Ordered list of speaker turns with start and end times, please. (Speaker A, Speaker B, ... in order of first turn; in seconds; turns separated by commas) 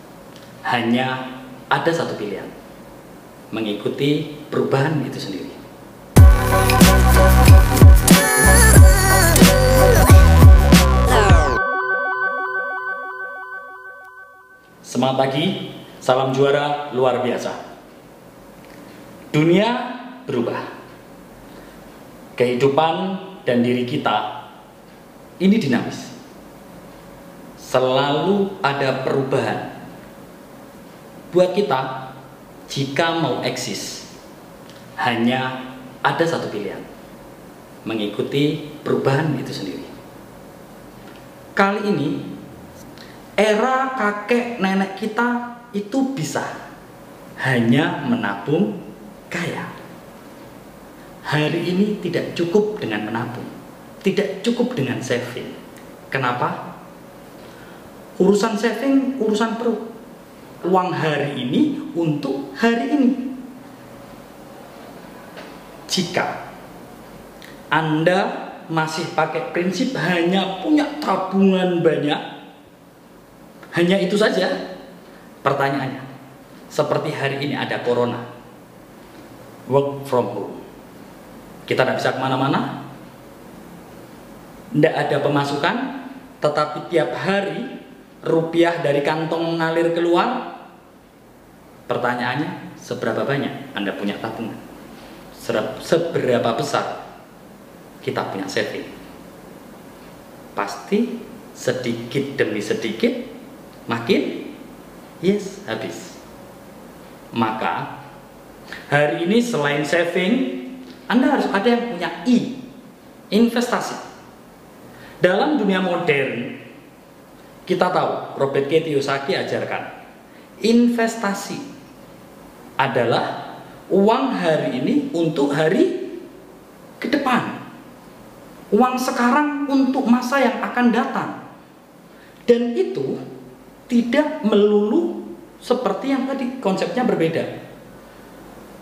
Speaker A: 0.7-2.5, Speaker A: 3.5-5.6, Speaker A: 14.8-17.6, Speaker A: 19.3-20.6, Speaker A: 22.4-24.4, Speaker A: 25.4-26.1, Speaker A: 27.6-29.7, Speaker A: 31.3-32.1, Speaker A: 32.7-34.1, Speaker A: 35.0-36.9, Speaker A: 37.8-39.9, Speaker A: 41.5-42.3, Speaker A: 43.4-46.5, Speaker A: 47.4-48.8, Speaker A: 49.3-49.7, Speaker A: 51.3-53.5, Speaker A: 54.0-55.5, Speaker A: 56.1-56.6, Speaker A: 58.2-59.9, Speaker A: 60.6-63.4, Speaker A: 65.9-66.4, Speaker A: 67.7-72.2, Speaker A: 73.7-74.6, Speaker A: 75.4-76.0, Speaker A: 76.7-78.2, Speaker A: 79.7-80.6, Speaker A: 81.7-82.8, Speaker A: 84.7-87.7, Speaker A: 88.2-90.5, Speaker A: 91.9-94.6, Speaker A: 95.3-97.0, Speaker A: 98.0-98.9, Speaker A: 100.5-103.3, Speaker A: 103.9-104.5, Speaker A: 105.2-106.2, Speaker A: 107.3-107.9, Speaker A: 108.9-112.6, Speaker A: 113.3-114.0, Speaker A: 115.2-116.6, Speaker A: 117.7-119.9, Speaker A: 120.6-121.6, Speaker A: 122.8-126.2, Speaker A: 127.0-127.6, Speaker A: 128.7-131.4, Speaker A: 132.4-133.2, Speaker A: 133.9-137.5